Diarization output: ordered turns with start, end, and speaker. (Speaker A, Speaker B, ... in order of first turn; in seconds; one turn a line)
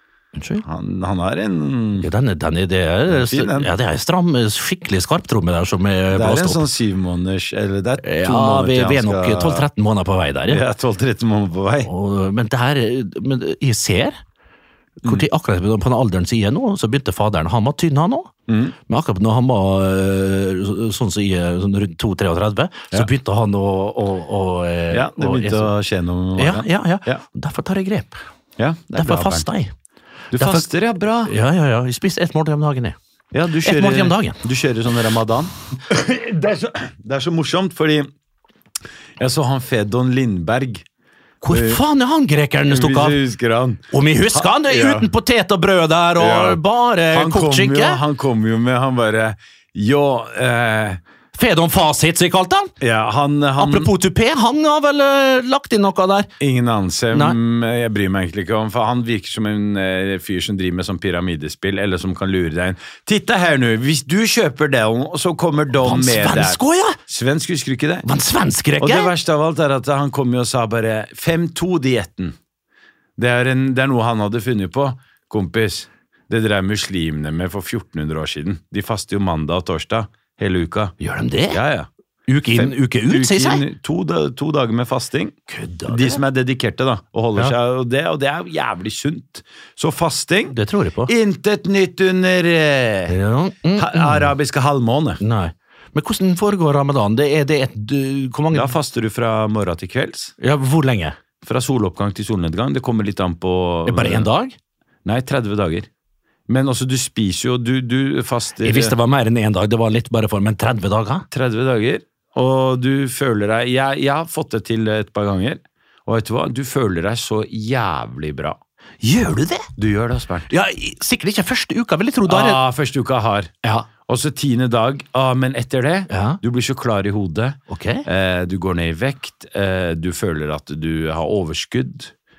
Speaker A: 0.4-0.7
Speaker B: 0.6-2.1
Speaker A: 2.0-6.6
Speaker B: 3.1-3.7
Speaker B: 6.1-9.7
Speaker A: 8.0-10.6
Speaker B: 10.5-11.9
Speaker A: 11.8-14.2
Speaker A: 15.0-18.3
Speaker B: 18.5-18.8
Speaker A: 18.9-25.7
Speaker B: 24.9-27.2
Speaker A: 26.4-28.2
Speaker B: 28.6-29.5
Speaker A: 28.9-29.7
Speaker B: 30.3-31.3
Speaker A: 30.4-30.7
Speaker A: 31.3-33.0
Speaker B: 33.3-38.1
Speaker A: 33.6-34.4
Speaker B: 39.2-40.9
Speaker A: 41.4-43.2
Speaker B: 41.5-41.8
Speaker B: 42.7-45.1
Speaker A: 43.9-48.0
Speaker B: 46.2-51.0
Speaker A: 51.4-52.7
Speaker B: 52.8-53.9
Speaker A: 53.6-56.3
Speaker B: 56.4-68.1
Speaker A: 57.1-57.4
Speaker A: 65.8-67.0
Speaker A: 68.0-69.1
Speaker B: 68.8-72.4
Speaker B: 73.2-81.0
Speaker A: 81.0-81.6
Speaker B: 81.5-81.9
Speaker A: 82.3-83.7
Speaker B: 82.5-85.3
Speaker A: 85.5-86.2
Speaker B: 85.9-93.2
Speaker A: 90.5-91.1
Speaker A: 93.1-94.3
Speaker B: 93.8-95.2
Speaker A: 95.2-98.7
Speaker B: 98.5-100.3
Speaker A: 100.4-101.2
Speaker B: 101.4-104.3
Speaker A: 103.9-104.6
Speaker B: 105.0-105.9
Speaker B: 106.5-109.0
Speaker A: 108.6-111.3
Speaker B: 111.3-118.6
Speaker A: 119.0-119.7
Speaker B: 119.8-120.5
Speaker A: 120.5-122.6
Speaker B: 122.3-132.1
Speaker A: 126.1-126.4
Speaker A: 127.7-128.1